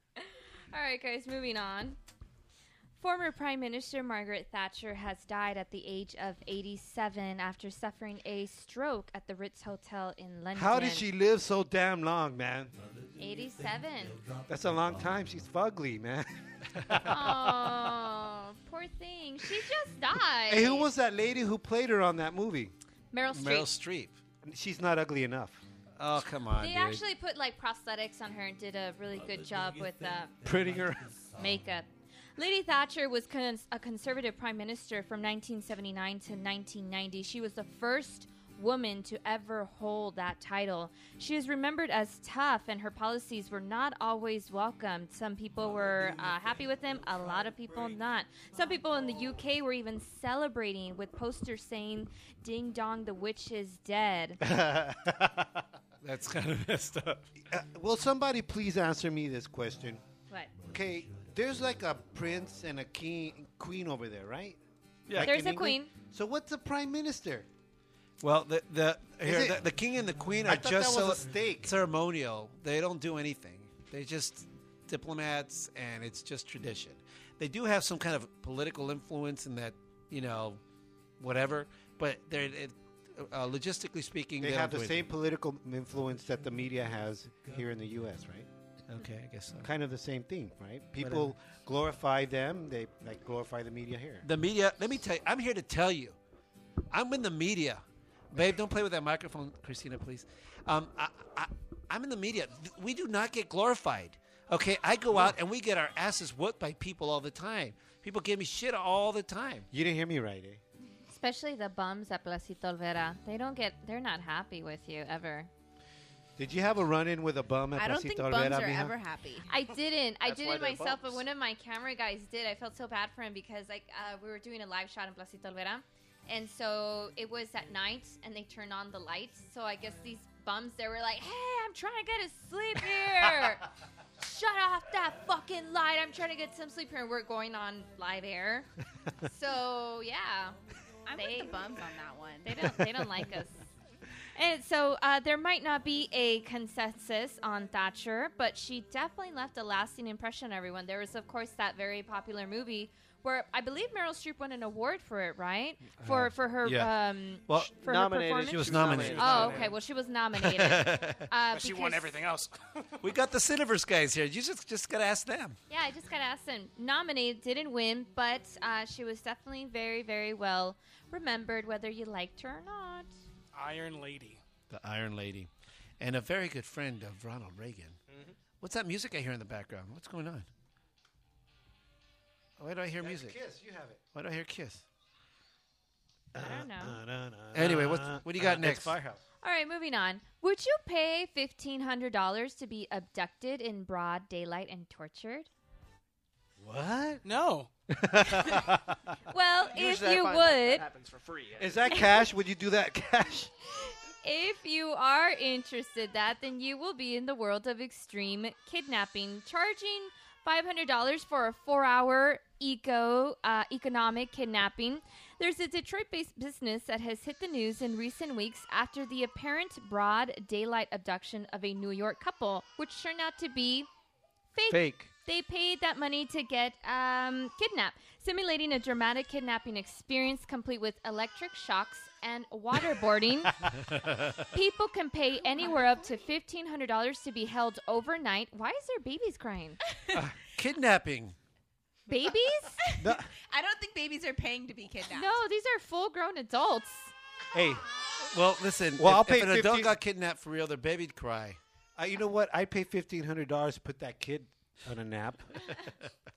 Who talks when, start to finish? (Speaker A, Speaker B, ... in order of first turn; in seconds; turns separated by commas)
Speaker A: 0.2-2.0, Speaker A: 3.0-11.1, Speaker B: 10.5-12.7, Speaker A: 13.2-14.2, Speaker B: 14.5-17.7, Speaker A: 17.1-20.9, Speaker B: 20.5-22.7, Speaker A: 23.1-23.7, Speaker C: 23.3-24.2, Speaker B: 24.4-25.6, Speaker C: 26.0-27.0, Speaker A: 26.6-30.4, Speaker B: 30.4-31.1, Speaker A: 31.4-54.4, Speaker B: 54.4-55.6, Speaker C: 56.0-57.3, Speaker B: 57.5-60.0, Speaker A: 60.3-60.6, Speaker B: 60.6-64.6, Speaker B: 65.1-67.5, Speaker A: 65.2-65.9, Speaker C: 68.2-80.6, Speaker B: 69.2-69.7, Speaker B: 70.4-71.7, Speaker C: 81.2-85.0, Speaker B: 84.4-88.5, Speaker C: 88.9-89.7, Speaker B: 89.6-94.2, Speaker C: 91.0-91.3, Speaker C: 94.2-96.2, Speaker C: 96.9-109.7, Speaker B: 109.7-110.6, Speaker A: 111.1-115.5, Speaker B: 116.4-118.9, Speaker D: 117.7-119.5, Speaker A: 119.5-133.6, Speaker E: 120.2-121.2, Speaker A: 134.2-138.7, Speaker A: 139.2-140.6, Speaker D: 141.1-142.6, Speaker A: 141.1-141.6, Speaker A: 142.4-143.6, Speaker A: 144.3-162.1, Speaker C: 156.0-156.9, Speaker B: 156.1-156.8, Speaker C: 157.5-157.7, Speaker E: 157.8-159.7, Speaker C: 158.5-159.7, Speaker C: 160.4-161.2, Speaker F: 161.5-162.6, Speaker C: 163.0-165.6, Speaker A: 165.7-173.1, Speaker F: 173.5-174.4, Speaker C: 174.7-175.5, Speaker C: 176.0-178.0, Speaker E: 178.1-178.4, Speaker C: 178.6-180.5, Speaker C: 182.6-183.4, Speaker B: 183.0-184.0, Speaker C: 184.1-184.8, Speaker B: 186.3-189.2, Speaker A: 186.4-187.0, Speaker C: 187.5-188.9, Speaker A: 189.4-195.5, Speaker B: 196.6-197.2, Speaker F: 197.2-197.7, Speaker B: 197.9-199.1, Speaker A: 199.3-200.8, Speaker E: 199.7-201.9, Speaker B: 201.6-203.5, Speaker A: 203.8-223.9, Speaker A: 224.5-233.6, Speaker B: 224.7-225.1, Speaker C: 233.9-234.4, Speaker A: 234.5-239.8, Speaker C: 240.4-241.3, Speaker A: 242.1-242.8, Speaker D: 242.8-245.3, Speaker B: 243.0-243.3, Speaker A: 245.1-247.1, Speaker B: 247.5-247.8, Speaker C: 248.3-251.6, Speaker B: 249.0-250.0, Speaker B: 251.9-255.5